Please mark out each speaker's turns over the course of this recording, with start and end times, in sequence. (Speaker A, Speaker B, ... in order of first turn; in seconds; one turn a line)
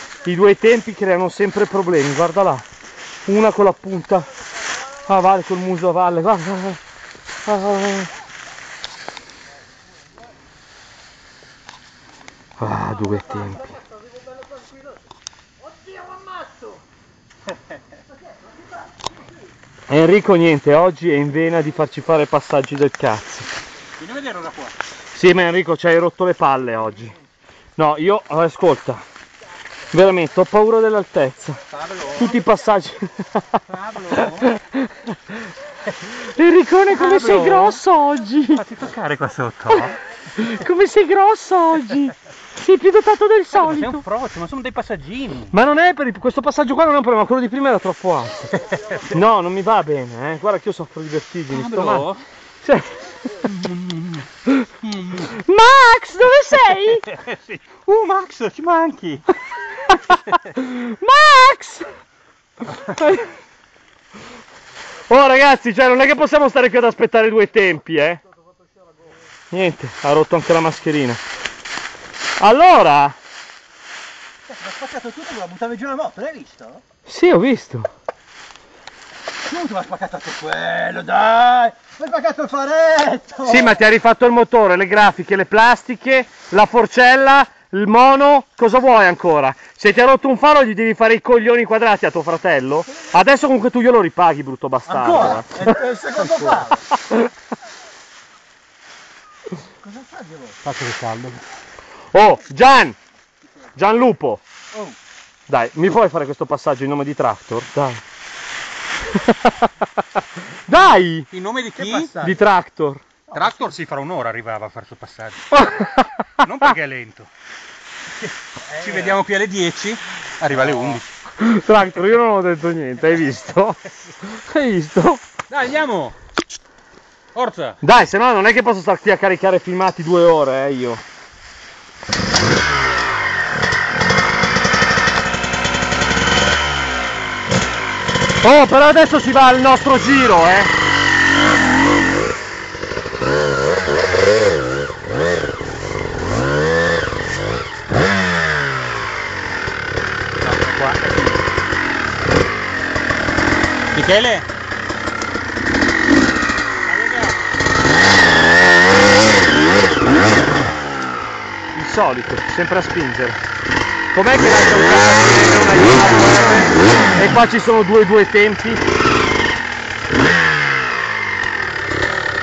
Speaker A: 0.2-2.6
Speaker A: 3.3-4.3
Speaker A: 5.0-6.8
Speaker A: 7.5-8.1
Speaker A: 12.6-13.8
Speaker A: 19.9-23.5
Speaker B: 24.0-24.8
Speaker A: 25.1-27.2
Speaker A: 27.8-29.0
Speaker A: 29.9-33.6
Speaker B: 31.7-32.4
Speaker B: 33.7-34.5
Speaker A: 34.4-35.0
Speaker A: 36.0-38.6
Speaker B: 36.9-37.8
Speaker B: 38.5-40.0
Speaker A: 39.8-44.0
Speaker B: 43.5-45.5
Speaker A: 45.5-52.1
Speaker B: 51.5-52.2
Speaker A: 52.6-53.0
Speaker B: 53.5-54.2
Speaker B: 54.9-55.3
Speaker A: 55.1-57.1
Speaker B: 57.1-59.3
Speaker A: 59.8-61.9
Speaker A: 62.8-63.3
Speaker A: 65.1-68.2
Speaker A: 69.5-71.2
Speaker A: 72.4-73.2
Speaker C: 74.5-76.8
Speaker A: 77.1-77.9
Speaker C: 79.4-83.8
Speaker A: 83.5-97.3
Speaker C: 94.9-96.9
Speaker C: 99.8-100.7
Speaker B: 100.7-101.4
Speaker A: 102.1-103.0
Speaker A: 103.8-104.4
Speaker A: 105.5-108.0
Speaker A: 109.2-109.7
Speaker A: 110.5-111.3
Speaker B: 111.3-112.2
Speaker C: 111.8-112.4
Speaker A: 112.2-113.0
Speaker B: 113.3-115.5
Speaker A: 115.5-116.5
Speaker B: 116.4-117.3
Speaker C: 118.7-119.2
Speaker B: 118.8-121.1
Speaker C: 120.6-121.0
Speaker A: 121.4-125.2
Speaker B: 125.5-126.2
Speaker B: 127.3-127.8
Speaker A: 127.8-131.0
Speaker A: 138.4-140.7
Speaker B: 150.4-151.4
Speaker B: 153.9-154.5
Speaker B: 156.8-157.4
Speaker A: 161.8-163.4
Speaker A: 164.1-168.8